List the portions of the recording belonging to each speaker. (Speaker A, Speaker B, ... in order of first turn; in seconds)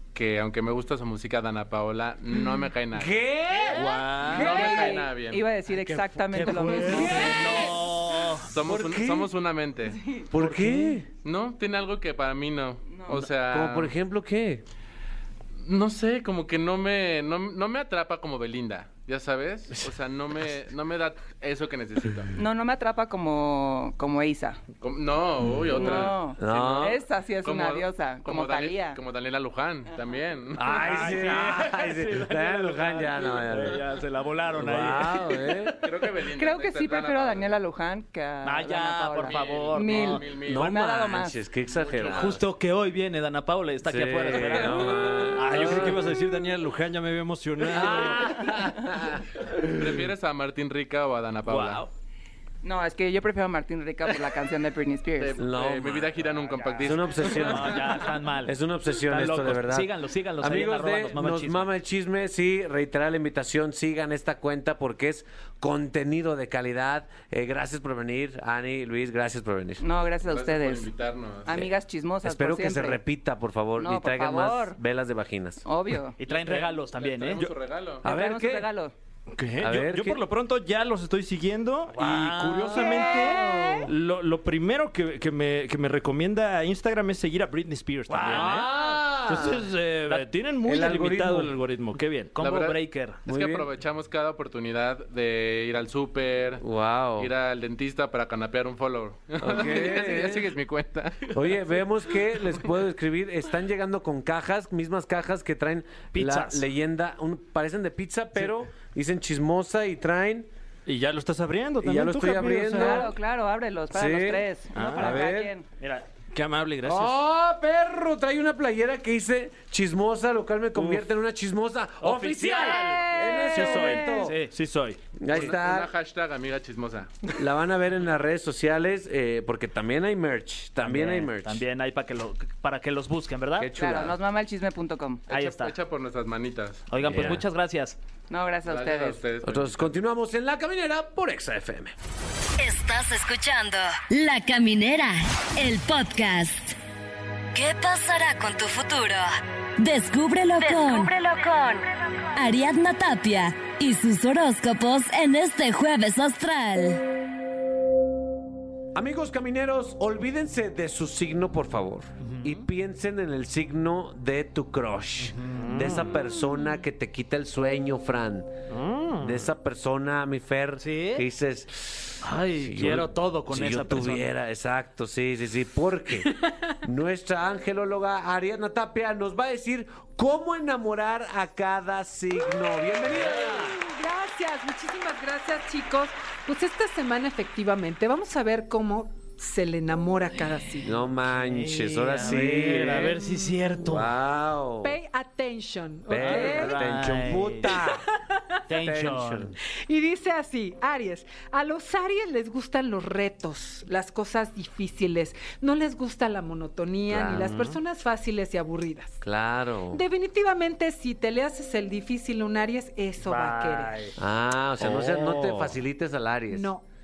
Speaker A: 0.1-3.2, 4.2-5.5, 8.5-10.0, 11.2-13.9, 15.6-22.3, 24.8-31.1, 35.8-37.5, 39.2-40.7, 41.7-42.3, 49.6-51.8, 55.2-58.0, 70.2-71.7, 76.3-78.1, 92.4-96.7, 97.2-101.4, 125.3-127.1, 135.3-136.8, 138.7-139.9
Speaker B: 2.9-4.9, 6.8-7.8, 8.6-9.3, 10.3-11.1, 13.5-14.6, 26.4-27.0, 30.5-33.8, 34.5-35.8, 40.4-42.4, 43.9-46.0, 47.7-49.2, 55.4-56.2, 56.8-69.8, 72.2-75.6, 78.0-78.7, 79.6-80.2, 88.2-89.6, 90.6-91.5, 93.3-93.7, 96.6-97.3, 99.4-100.5, 101.3-110.5, 111.8-113.1, 113.9-114.4, 115.0-115.5, 116.8-124.4, 125.2-125.9, 127.4-131.6, 133.6-134.2, 137.0-137.4, 139.4-141.9, 158.9-168.5, 169.2-183.8, 190.8-193.2, 193.8-195.0, 196.1-198.1, 198.7-199.5, 207.1-207.8, 209.2-210.0, 214.2-216.7
Speaker C: 3.8-4.5, 6.3-8.5, 30.7-35.6, 38.4-40.2, 42.1-46.0, 57.2-61.7, 76.2-77.4, 81.9-83.5, 88.1-88.8, 92.3-93.2, 106.1-106.7, 114.8-115.0, 115.8-116.1, 122.0-124.5, 130.8-133.7, 135.3-135.8, 136.9-138.0, 162.2-162.7, 165.3-166.0, 170.8-171.3, 172.2-174.3, 191.3-194.1, 196.2-197.8, 198.7-199.6, 213.2-214.2
Speaker D: 3.9-4.4, 5.7-7.1, 45.4-48.7, 51.5-51.9, 79.3-92.3, 110.9-113.1, 114.7-115.2, 116.3-117.2, 122.2-125.0, 165.6-166.1, 168.7-169.4, 214.8-215.7
Speaker E: 4.4-7.5, 12.9-13.2, 22.4-24.6, 25.8-29.0, 36.4-41.4, 52.6-55.4, 69.8-70.9, 71.5-73.0, 73.8-74.8, 75.7-76.2, 78.0-78.9, 112.8-115.7, 122.9-123.9, 133.7-135.3, 138.3-139.3
Speaker F: 82.9-83.8, 183.6-191.0, 194.8-196.9, 197.8-198.4, 199.9-209.2, 209.9-214.0, 216.5-216.8
Speaker G: 142.6-146.8, 147.5-157.0